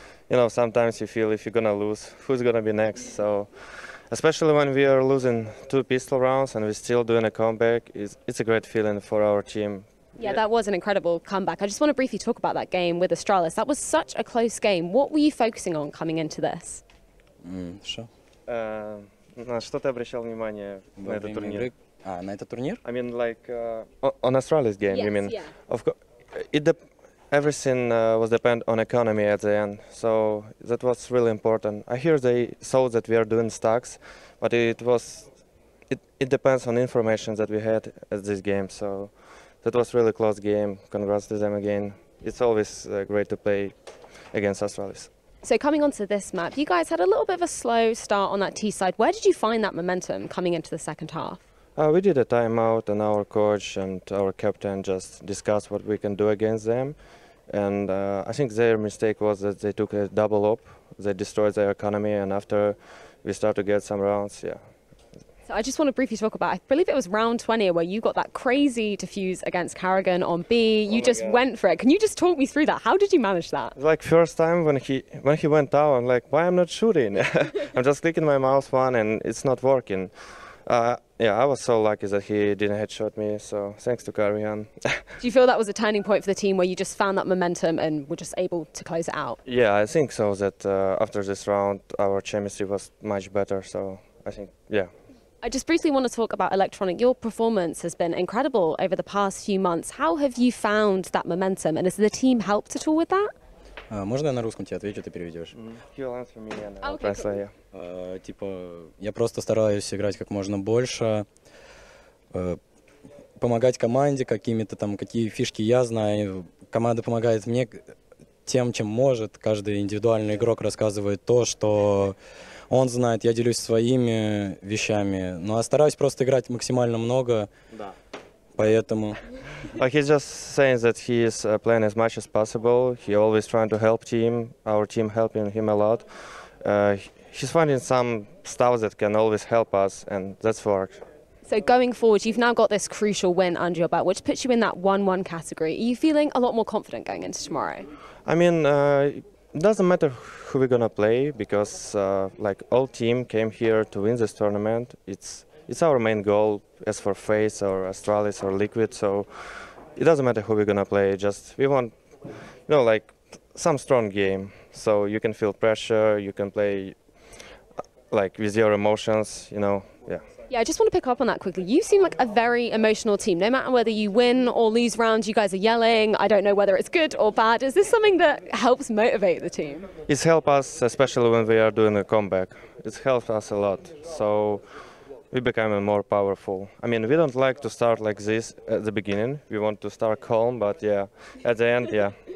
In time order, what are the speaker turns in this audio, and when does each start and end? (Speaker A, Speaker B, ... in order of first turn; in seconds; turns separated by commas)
Speaker A: 0.3-3.5, Speaker A: 4.1-10.4, Speaker B: 10.2-16.8, Speaker C: 17.4-18.1, Speaker A: 18.5-21.7, Speaker C: 21.0-22.8, Speaker A: 22.8-26.8, Speaker B: 24.9-25.5, Speaker A: 27.3-35.3, Speaker A: 35.9-39.1, Speaker A: 39.6-43.8, Speaker A: 44.3-45.1, Speaker B: 45.4-51.4, Speaker A: 51.8-57.0, Speaker A: 57.5-64.6, Speaker B: 65.5-73.8, Speaker A: 70.9-71.4, Speaker A: 73.8-80.1, Speaker A: 80.7-85.0, Speaker B: 85.2-89.4, Speaker A: 89.5-94.9, Speaker B: 95.4-103.3, Speaker C: 103.9-105.5, Speaker A: 105.5-107.5, Speaker B: 106.8-107.3, Speaker C: 107.7-111.3, Speaker C: 112.3-112.6, Speaker C: 113.4-117.8, Speaker C: 118.4-122.2, Speaker C: 122.7-127.5, Speaker C: 128.6-129.2, Speaker A: 129.8-141.0, Speaker B: 141.5-147.8, Speaker A: 148.2-161.9, Speaker A: 162.7-167.0, Speaker A: 168.1-170.2, Speaker B: 170.5-179.9, Speaker A: 180.1-184.7, Speaker A: 185.3-192.2